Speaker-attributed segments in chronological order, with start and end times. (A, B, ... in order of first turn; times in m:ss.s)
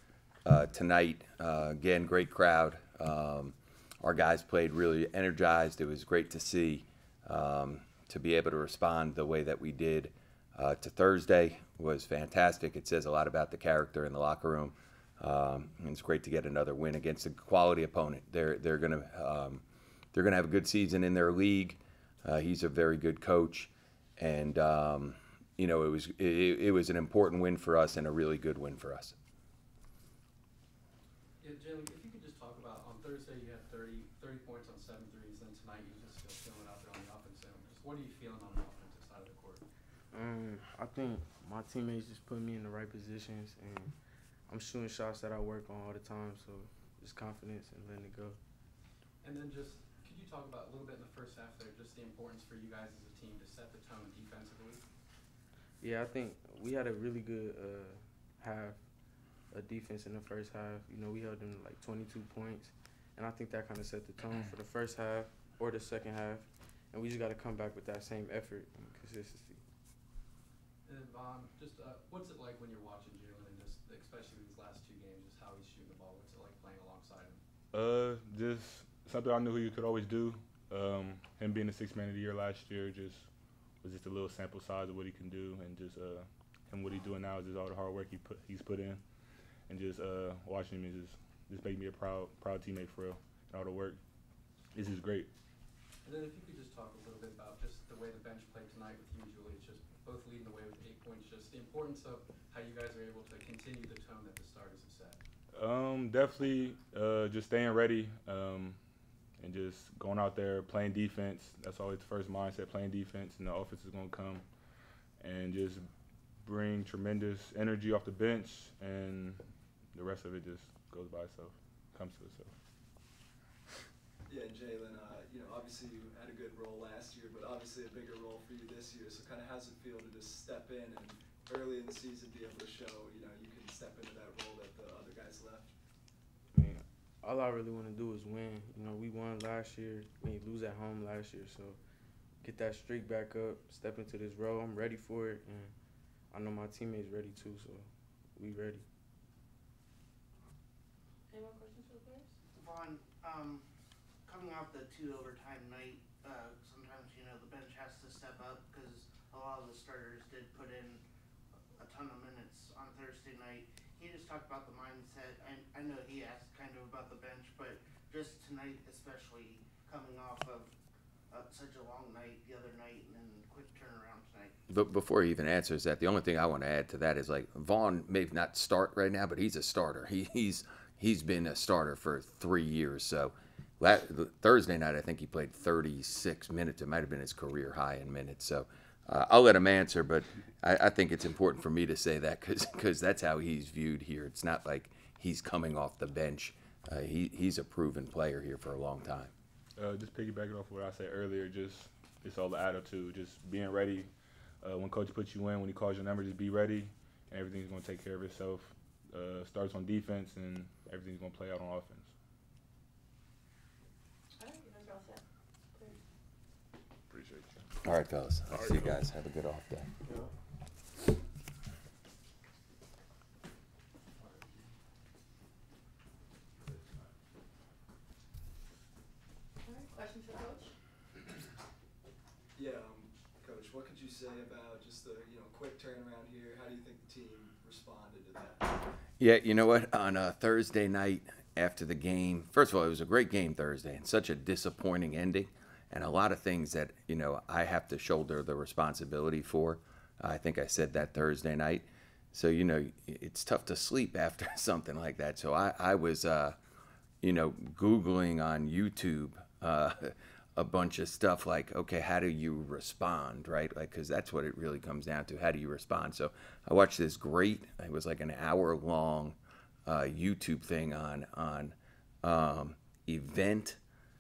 0:00.4-0:19.6 A
0:20.1-0:29.2 A
0:31.4-0:39.6 B
0:40.1-0:43.9 C
0:44.5-0:48.4 C
0:49.2-0:54.8 B
0:55.8-0:58.8 C
0:59.5-1:09.6 C
1:10.8-1:17.4 B
1:17.7-1:23.3 D
1:23.8-1:29.0 D
1:29.7-1:34.0 D
1:34.7-1:35.3 D
1:36.0-1:45.2 B
1:45.5-1:48.8 D
1:49.4-1:54.4 D
1:55.2-1:55.9 D
1:56.4-1:59.4 D
1:59.9-2:02.5 D
2:04.3-2:15.7 E
2:16.5-2:21.8 C
2:22.4-2:25.7 C
2:26.3-2:28.8 C
2:31.3-2:32.3 F
2:32.6-2:33.6 G
2:34.2-2:41.0 G
2:41.8-2:50.7 G
2:51.3-2:54.5 G
2:54.7-3:19.3 A
3:19.8-3:32.1 D
3:34.4-3:35.2 F
3:37.8-3:39.9 A
3:49.6-3:50.7 F
3:52.6-3:58.8 E
3:59.2-4:16.6 A
4:17.2-4:33.8 A